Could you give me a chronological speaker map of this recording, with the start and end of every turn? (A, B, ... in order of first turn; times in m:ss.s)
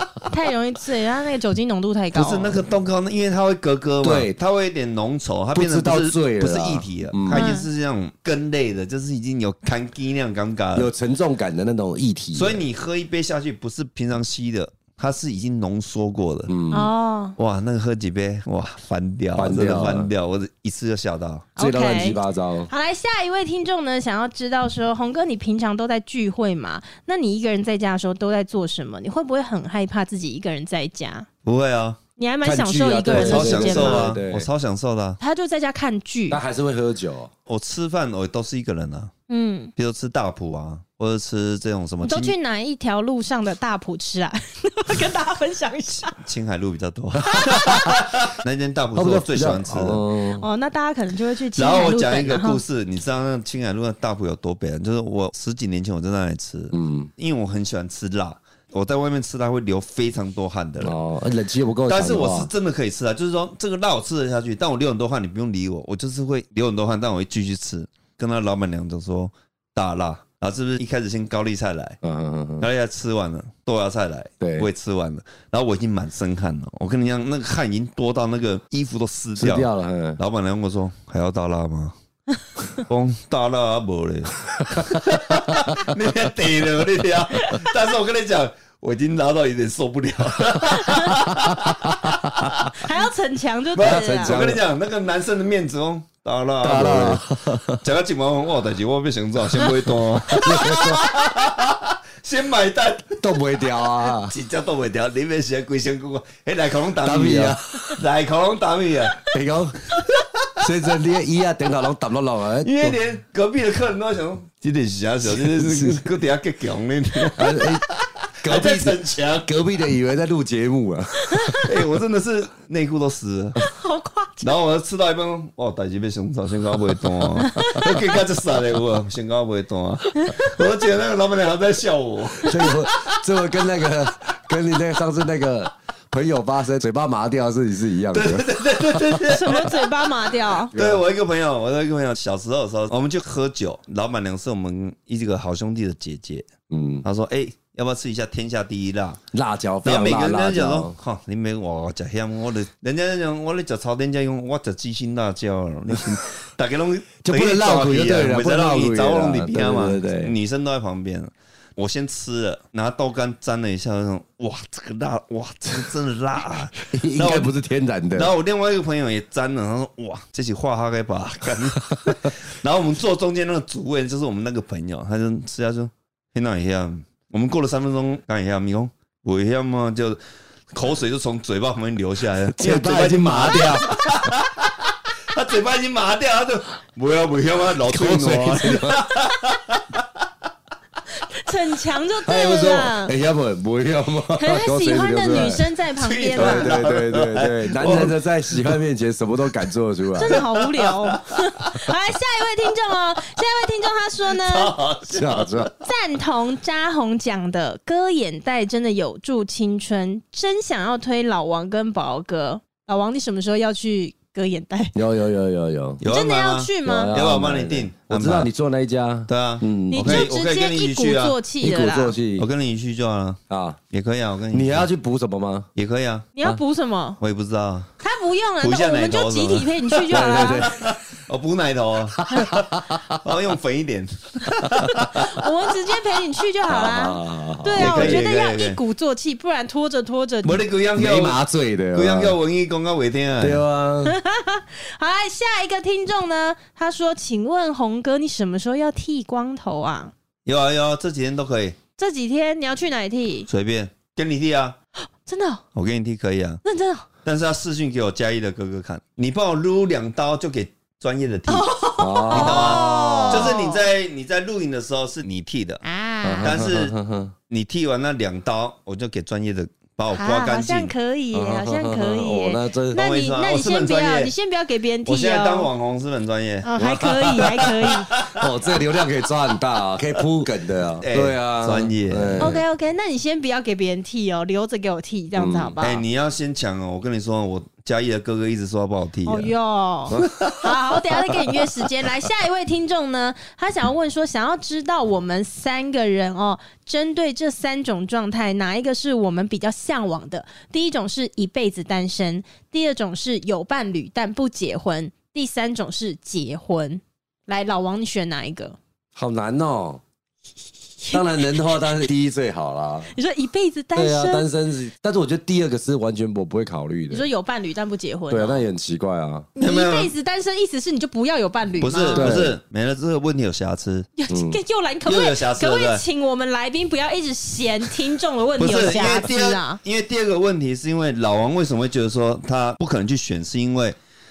0:00.3-0:02.6 A
0:02.1-0:10.9 B
0:04.0-0:04.4 C
0:05.5-0:07.5 C
0:07.3-0:07.7 A
0:10.8-0:12.6 C
0:12.3-0:16.5 B
0:16.5-0:16.9 C
0:16.7-0:17.4 A
0:17.4-0:21.5 B
0:19.4-0:20.1 C
0:21.6-0:31.3 A
0:21.6-0:22.7 C
0:31.4-0:32.0 B
0:32.2-0:34.1 A
0:32.4-0:34.5 C
0:33.1-0:35.2 B
0:35.2-0:36.4 A
0:36.3-0:37.3 C
0:37.5-0:39.1 B
0:39.3-0:39.7 A
0:39.8-0:42.4 B
0:42.0-0:46.2 A
0:46.2-0:50.0 B
0:47.3-0:47.8 A
0:47.7-0:48.0 C
0:49.0-0:50.5 C
0:50.4-0:52.6 A
0:51.6-1:01.0 B
0:56.7-0:57.1 C
1:00.8-1:02.5 C
1:01.9-1:12.0 B
1:12.0-1:12.7 C
1:12.6-1:22.0 B
1:14.4-1:14.7 C
1:19.4-1:20.2 C
1:22.8-1:32.8 B
1:24.8-1:25.4 C
1:30.7-1:31.2 A
1:32.7-1:34.4 A
1:33.8-1:43.4 B
1:33.8-1:34.6 C
1:36.6-1:37.8 C
1:40.3-1:41.1 C
1:43.2-1:44.4 C
1:44.1-1:49.3 B
1:47.0-1:48.0 C
1:49.2-1:49.8 C
1:49.9-1:50.3 B
1:50.6-1:53.0 C
1:52.6-1:59.6 B
1:55.2-1:56.1 C
1:57.3-1:57.9 C
1:58.4-2:01.8 C
2:01.2-2:01.6 A
2:01.6-2:03.6 B
2:03.6-2:04.5 A
2:04.4-2:13.2 B
2:07.5-2:08.0 A
2:10.2-2:10.6 A
2:12.4-2:19.2 C
2:18.1-2:19.9 B
2:19.2-2:20.7 A
2:20.7-2:21.0 C
2:20.7-2:26.5 B
2:26.7-2:27.0 C
2:27.0-2:29.2 B
2:29.3-2:31.0 C
2:29.8-2:47.5 B
2:37.2-2:40.3 C
2:46.8-2:48.3 C
2:48.1-3:00.2 B
3:00.7-3:04.7 B
3:02.5-3:04.0 C
3:05.3-3:10.0 B
3:07.8-3:09.0 C
3:11.2-3:13.1 A
3:12.2-3:15.7 C
3:14.3-3:16.8 A
3:16.0-3:18.8 B
3:16.4-3:20.4 C
3:20.2-3:24.8 A
3:20.3-3:21.7 B
3:24.4-3:25.7 B
3:25.1-3:25.7 C
3:25.8-3:35.0 A
3:35.0-3:36.0 C
3:36.0-3:38.5 B
3:36.1-3:37.2 A
3:36.8-3:40.3 C
3:39.3-3:41.4 B
3:39.9-3:42.2 A
3:41.6-3:42.5 C
3:42.4-3:43.4 B
3:43.5-3:43.8 C
3:43.9-3:44.9 B
3:44.5-3:45.7 C
3:45.8-3:46.3 B
3:46.4-3:47.2 A
3:47.2-3:47.9 B
3:48.0-3:50.7 A
3:48.6-3:55.3 B
3:50.1-3:50.9 C
3:52.2-3:53.2 C
3:54.6-4:00.6 A
3:56.7-3:58.2 C
3:57.8-3:58.8 B
4:00.4-4:01.4 B
4:01.0-4:02.4 C
4:01.9-4:03.6 B
4:03.4-4:04.2 C
4:04.0-4:10.1 A
4:10.5-4:11.8 B
4:12.0-4:13.5 A
4:13.5-4:14.8 B
4:15.2-4:15.6 A
4:15.8-4:16.6 B
4:16.6-4:17.1 A
4:17.2-4:21.7 B
4:21.5-4:23.8 A
4:22.0-4:23.5 C
4:22.3-4:25.8 B
4:25.8-4:26.6 A
4:26.2-4:27.4 C
4:26.4-4:27.0 B
4:27.5-4:30.9 B
4:30.1-4:35.7 A
4:31.3-4:33.0 C
4:32.9-4:34.3 B
4:35.1-4:36.7 B
4:36.6-4:38.1 A
4:36.8-4:42.6 C
4:37.3-4:38.5 B
4:41.0-4:42.5 B
4:42.4-4:46.0 A
4:45.4-4:45.8 C
4:45.8-4:49.5 B
4:49.2-5:08.8 A
4:50.1-4:50.6 C
4:50.2-4:50.6 B
5:09.2-5:10.0 C
5:11.0-5:11.4 A
5:11.1-5:13.1 C
5:13.1-5:14.5 A
5:14.0-5:17.2 C
5:17.1-5:18.6 A
5:18.3-5:19.5 C
5:19.6-5:22.4 A
5:19.6-5:20.1 B
5:21.8-5:24.1 B
5:22.1-5:22.6 C
5:24.2-5:29.8 A
5:24.3-5:24.6 C
5:25.1-5:26.0 B
5:28.6-5:34.0 B